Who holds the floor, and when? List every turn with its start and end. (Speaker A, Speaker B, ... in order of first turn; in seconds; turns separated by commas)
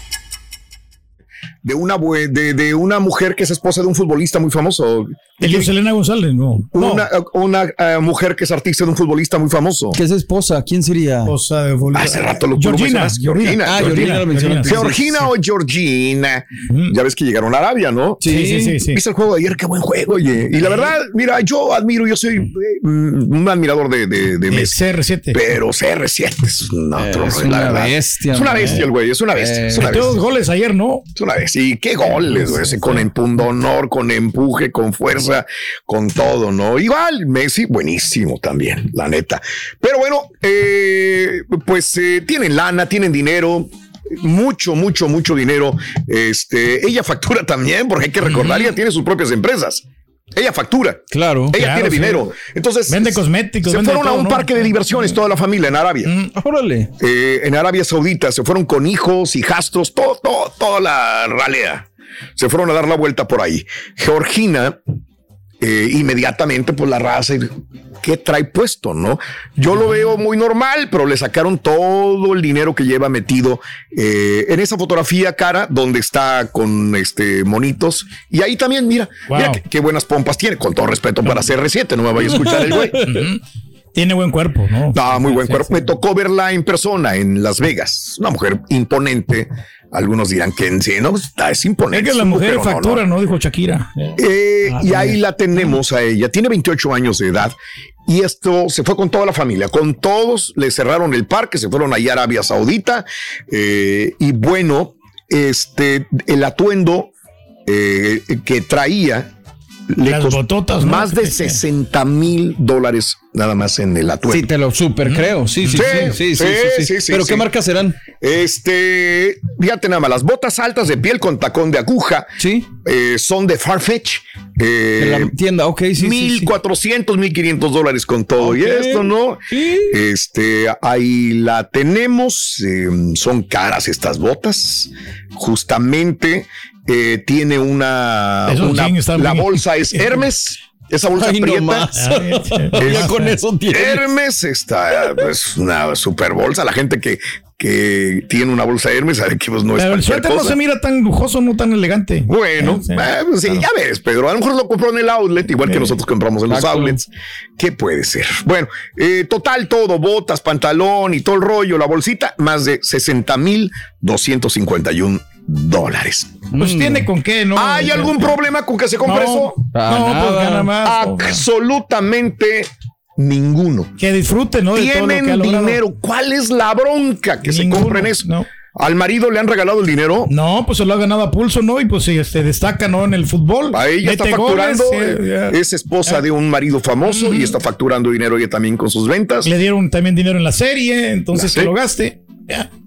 Speaker A: 1.6-5.7, Speaker B: 5.4-7.1, Speaker A: 6.7-10.0, Speaker C: 9.9-11.3, Speaker B: 11.2-14.8, Speaker A: 11.9-24.8, Speaker C: 13.6-15.2, Speaker B: 16.7-17.0, Speaker C: 18.2-18.8, Speaker B: 18.3-19.0, Speaker B: 24.5-25.4, Speaker A: 25.3-30.2, Speaker C: 27.0-30.0, Speaker B: 29.7-31.1, Speaker A: 31.1-56.1, Speaker B: 32.2-33.0, Speaker B: 48.2-48.7, Speaker C: 51.1-52.2, Speaker B: 51.5-52.0, Speaker B: 52.9-55.2, Speaker B: 56.0-56.3, Speaker C: 56.4-56.9, Speaker A: 57.0-61.9, Speaker A: 62.4-64.8, Speaker A: 65.6-67.5, Speaker A: 68.0-83.0, Speaker B: 79.3-79.6, Speaker C: 82.2-83.3, Speaker B: 83.1-83.4, Speaker B: 83.9-85.0, Speaker A: 84.9-93.0, Speaker C: 85.3-85.7, Speaker B: 91.9-95.2, Speaker A: 94.2-97.5, Speaker A: 98.1-107.1, Speaker A: 107.7-109.3, Speaker A: 109.9-114.5, Speaker B: 110.0-111.6, Speaker C: 114.3-118.0, Speaker B: 115.1-116.0, Speaker A: 115.7-117.5, Speaker A: 118.2-125.3, Speaker C: 122.4-122.7, Speaker C: 125.0-126.5, Speaker A: 126.0-142.0, Speaker C: 128.4-130.0, Speaker B: 138.5-140.3, Speaker C: 141.2-144.1, Speaker B: 142.0-143.3, Speaker A: 142.8-143.2, Speaker A: 143.7-150.6, Speaker B: 149.8-153.1, Speaker A: 152.3-166.4, Speaker B: 155.7-155.9, Speaker C: 156.5-157.0, Speaker C: 166.5-167.1, Speaker B: 166.6-168.2, Speaker A: 167.6-169.6, Speaker B: 169.0-171.4, Speaker C: 169.7-170.7, Speaker A: 170.8-173.9, Speaker B: 174.0-175.8, Speaker A: 174.7-180.3, Speaker B: 177.4-178.5, Speaker B: 180.3-186.2, Speaker A: 183.7-189.5, Speaker B: 187.1-187.6, Speaker B: 189.4-192.7, Speaker A: 191.3-191.7